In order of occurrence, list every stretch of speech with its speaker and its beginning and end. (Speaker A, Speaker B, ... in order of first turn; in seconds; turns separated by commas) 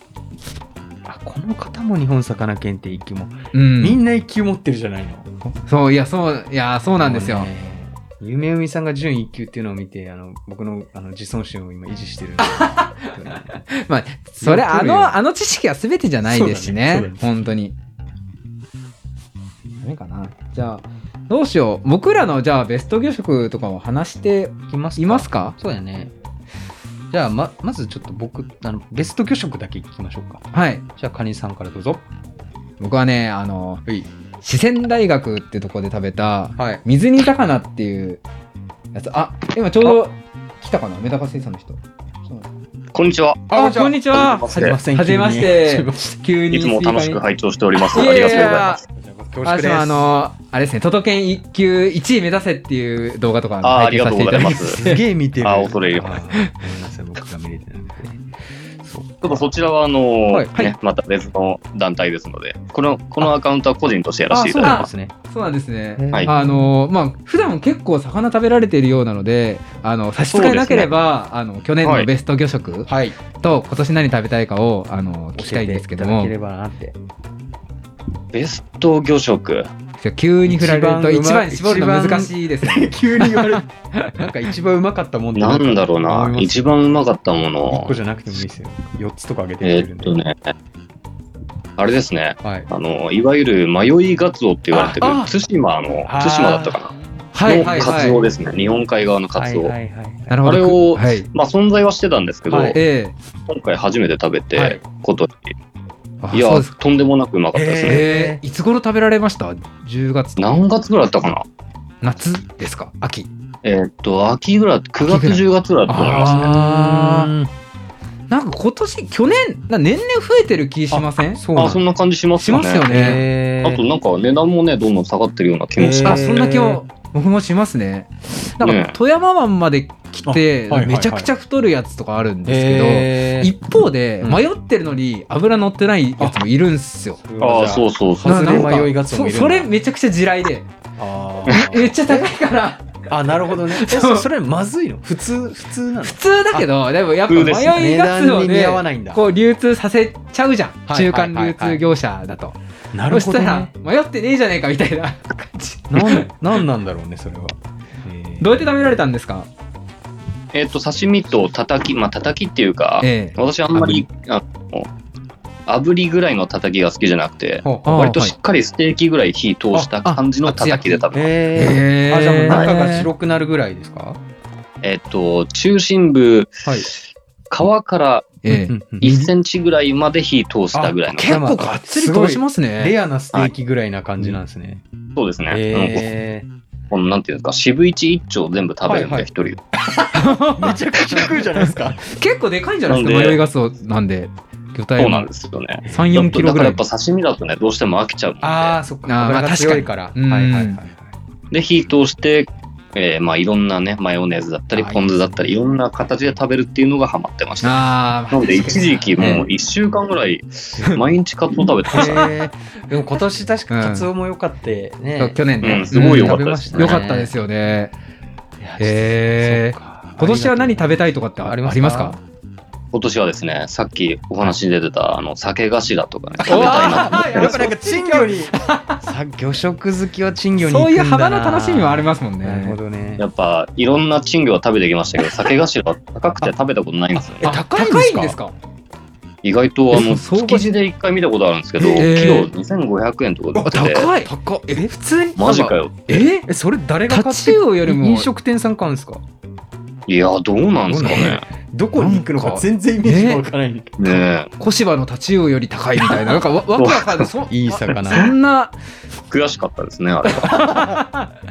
Speaker A: 1.1-5.3, Speaker B: 3.5-4.0, Speaker B: 5.5-7.5, Speaker A: 7.0-13.7, Speaker B: 12.4-13.1, Speaker B: 13.7-17.8, Speaker A: 14.4-15.2, Speaker A: 16.2-17.3, Speaker B: 19.8-25.6, Speaker A: 24.7-26.1, Speaker A: 27.1-32.0, Speaker B: 30.5-30.8, Speaker B: 32.8-33.8, Speaker B: 34.4-38.2, Speaker A: 36.6-36.8, Speaker B: 38.9-42.5, Speaker C: 42.9-44.8, Speaker A: 43.5-46.1, Speaker B: 43.5-47.2, Speaker C: 46.5-48.8, Speaker B: 47.9-48.8, Speaker A: 48.0-50.1, Speaker B: 49.4-55.0, Speaker C: 53.6-54.8, Speaker A: 54.5-58.2, Speaker C: 55.4-56.2, Speaker A: 58.8-59.5, Speaker C: 59.2-64.9, Speaker A: 60.3-60.6, Speaker A: 64.3-65.1, Speaker B: 64.6-76.3, Speaker A: 66.0-66.7, Speaker C: 70.3-70.9, Speaker C: 71.8-72.1, Speaker A: 72.9-73.2, Speaker A: 75.4-77.0, Speaker C: 78.3-79.7, Speaker B: 80.0-84.2, Speaker A: 80.5-86.7, Speaker C: 85.4-88.0, Speaker A: 87.7-90.2, Speaker C: 89.6-90.5, Speaker C: 91.8-99.7, Speaker A: 92.4-92.7, Speaker A: 94.7-95.3, Speaker A: 96.1-96.9, Speaker B: 97.3-98.2, Speaker A: 97.5-98.2, Speaker A: 99.3-100.4, Speaker B: 100.3-101.3, Speaker C: 100.4-102.8, Speaker A: 102.5-102.8, Speaker B: 102.7-103.1, Speaker C: 103.5-105.5, Speaker A: 104.5-104.8, Speaker B: 106.2-106.8, Speaker C: 106.3-108.1, Speaker A: 107.5-108.4, Speaker B: 107.8-110.6, Speaker C: 110.4-111.5, Speaker B: 112.0-113.3, Speaker C: 113.6-116.5, Speaker B: 115.0-117.3, Speaker A: 115.9-117.5, Speaker B: 118.3-121.8, Speaker A: 120.9-121.8, Speaker C: 121.5-126.4, Speaker B: 122.4-123.2, Speaker A: 122.8-123.8, Speaker A: 125.8-126.8, Speaker B: 126.0-137.2, Speaker C: 128.6-128.9, Speaker A: 130.2-131.3, Speaker A: 132.5-133.6, Speaker A: 137.2-139.7, Speaker C: 137.4-138.8, Speaker B: 138.2-140.7, Speaker A: 141.0-142.3, Speaker B: 141.5-144.3, Speaker A: 143.1-146.7, Speaker B: 146.0-152.6, Speaker C: 147.3-147.7, Speaker A: 147.4-149.2, Speaker A: 150.9-151.8, Speaker A: 152.9-153.7, Speaker B: 153.1-156.3, Speaker A: 155.9-159.0, Speaker B: 158.4-159.5, Speaker C: 160.5-164.9, Speaker B: 163.0-164.0, Speaker C: 165.7-171.3, Speaker A: 167.6-168.1, Speaker B: 167.8-168.3, Speaker B: 170.1-173.1, Speaker A: 171.1-174.2, Speaker C: 174.8-176.9, Speaker C: 177.5-178.4, Speaker B: 178.4-179.3, Speaker A: 178.5-179.1, Speaker C: 179.0-181.5, Speaker A: 180.7-184.8, Speaker B: 181.1-182.9, Speaker C: 185.2-186.1, Speaker A: 185.5-186.5, Speaker C: 186.9-189.6, Speaker A: 188.9-192.1, Speaker B: 190.1-191.4, Speaker B: 192.1-195.3, Speaker C: 192.9-193.4, Speaker C: 195.0-198.8, Speaker A: 195.8-196.2, Speaker B: 195.9-196.8, Speaker A: 198.4-201.1, Speaker B: 199.1-200.8, Speaker C: 201.5-212.3, Speaker A: 204.7-205.3, Speaker B: 207.6-209.4, Speaker A: 209.2-209.5, Speaker A: 211.9-217.3, Speaker B: 211.9-212.3, Speaker B: 213.7-214.1, Speaker B: 215.2-217.9, Speaker C: 215.6-217.0, Speaker A: 218.6-222.2, Speaker B: 218.8-222.2, Speaker C: 222.9-227.7, Speaker A: 226.4-233.2, Speaker B: 226.4-229.0, Speaker B: 230.6-232.8, Speaker C: 233.2-237.5, Speaker A: 237.1-238.4, Speaker B: 237.4-238.5, Speaker C: 239.4-244.1, Speaker B: 239.9-240.8, Speaker B: 241.8-242.5, Speaker A: 243.6-244.9, Speaker B: 243.6-246.5, Speaker C: 245.4-246.2, Speaker A: 246.4-249.2, Speaker B: 247.1-248.3, Speaker C: 250.1-251.4, Speaker A: 250.9-254.2, Speaker B: 251.9-253.4, Speaker C: 254.0-254.5, Speaker B: 254.1-258.8, Speaker C: 256.8-257.3, Speaker A: 257.5-258.3, Speaker C: 259.3-260.7, Speaker A: 260.3-261.0, Speaker B: 260.4-261.3